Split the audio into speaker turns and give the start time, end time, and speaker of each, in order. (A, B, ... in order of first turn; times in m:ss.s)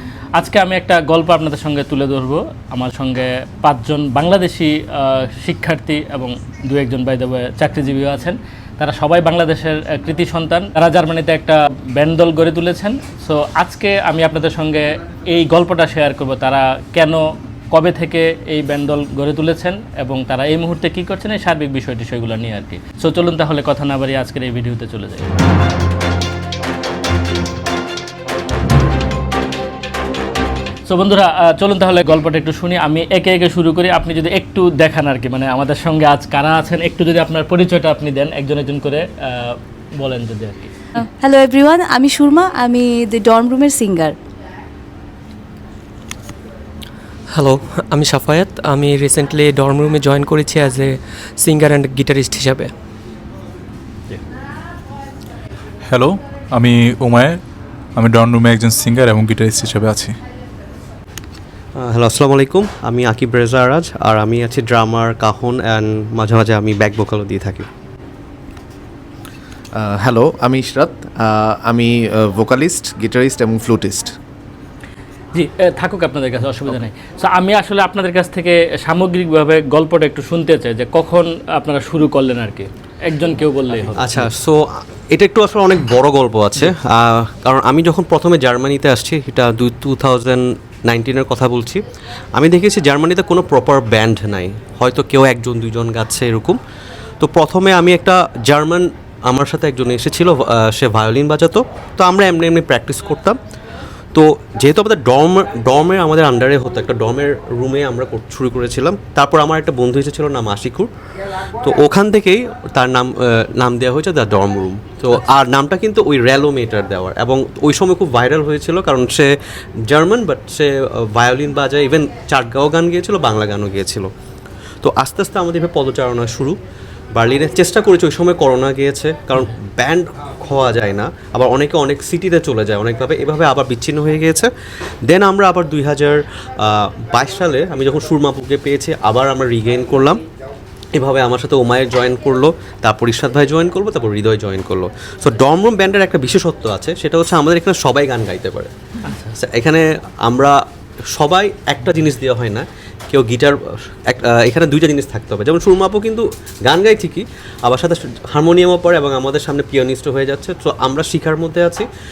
0:00.4-0:25.3 A
0:30.9-0:40.7 A
0:41.0-0:44.1 B
0:47.3-0:52.7 C
0:55.9-0:57.4 D
0:58.0-1:00.1 D
1:01.8-1:07.7 E
1:09.7-1:14.1 F
1:15.3-1:24.3 A
1:23.9-1:31.8 E
1:32.3-1:36.6 E
1:37.2-1:43.4 E
1:44.1-1:50.9 E
1:51.6-1:59.3 E
1:59.9-2:04.1 E
2:04.8-2:06.6 E
2:07.1-2:14.5 E
2:15.0-2:20.2 E
2:20.9-2:28.7 E
2:29.0-2:29.4 A
2:29.4-2:30.6 E
2:31.1-2:41.9 E